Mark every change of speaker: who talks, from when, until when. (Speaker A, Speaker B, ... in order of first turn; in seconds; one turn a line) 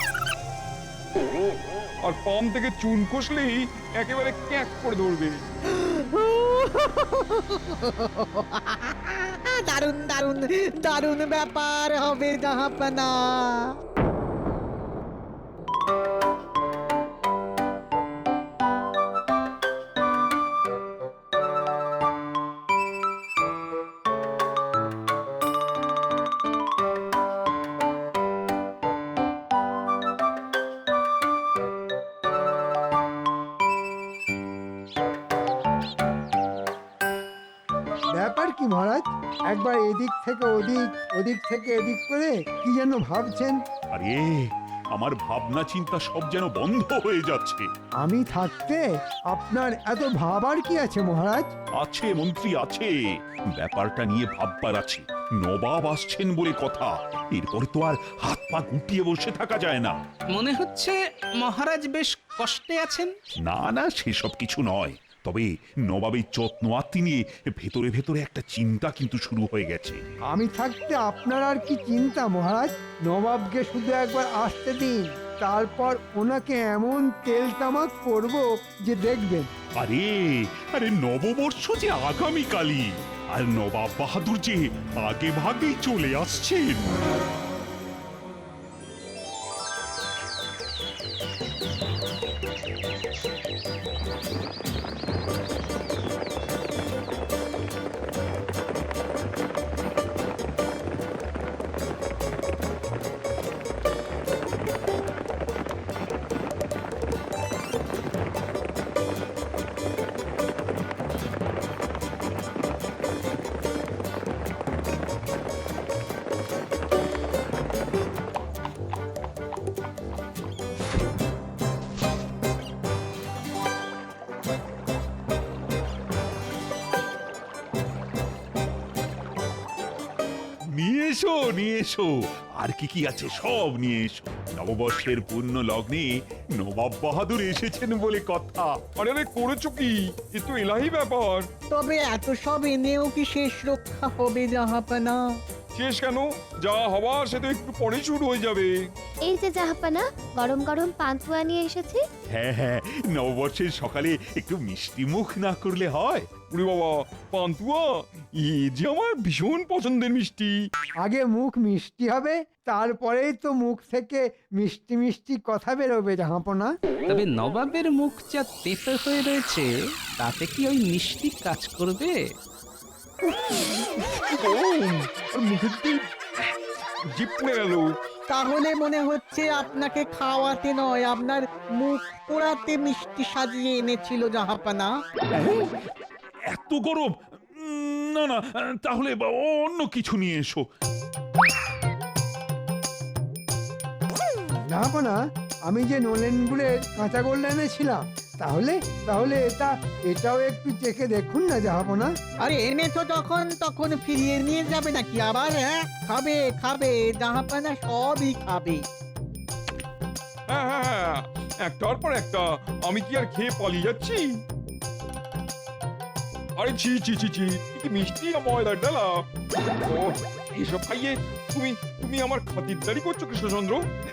Speaker A: 2.0-5.4
Speaker B: 5.7-13.8
Speaker C: 38.2-43.6
Speaker D: 43.9-47.7
Speaker C: 48.0-51.5
Speaker D: 51.8-52.9
Speaker D: 53.5-59.9
Speaker E: 60.3-63.1
Speaker D: 63.4-70.0
Speaker C: 70.3-79.5
Speaker D: 79.8-86.9
Speaker D: 130.7-138.7
Speaker A: 139.0-141.5
Speaker B: 141.7-145.2
Speaker A: 145.7-148.7
Speaker F: 149.3-152.0
Speaker D: 152.3-156.3
Speaker A: 156.5-160.5
Speaker C: 161.0-166.7
Speaker E: 167.1-169.7
Speaker E: 170.2-172.2
Speaker A: 173.2-176.1
Speaker A: 177.1-177.9
Speaker B: 178.3-184.9
Speaker D: 185.3-185.7
Speaker D: 186.5-190.6
Speaker C: 194.7-202.1
Speaker B: 202.4-208.8
Speaker A: 210.5-214.3
Speaker A: 216.6-219.1
Speaker A: 219.8-223.8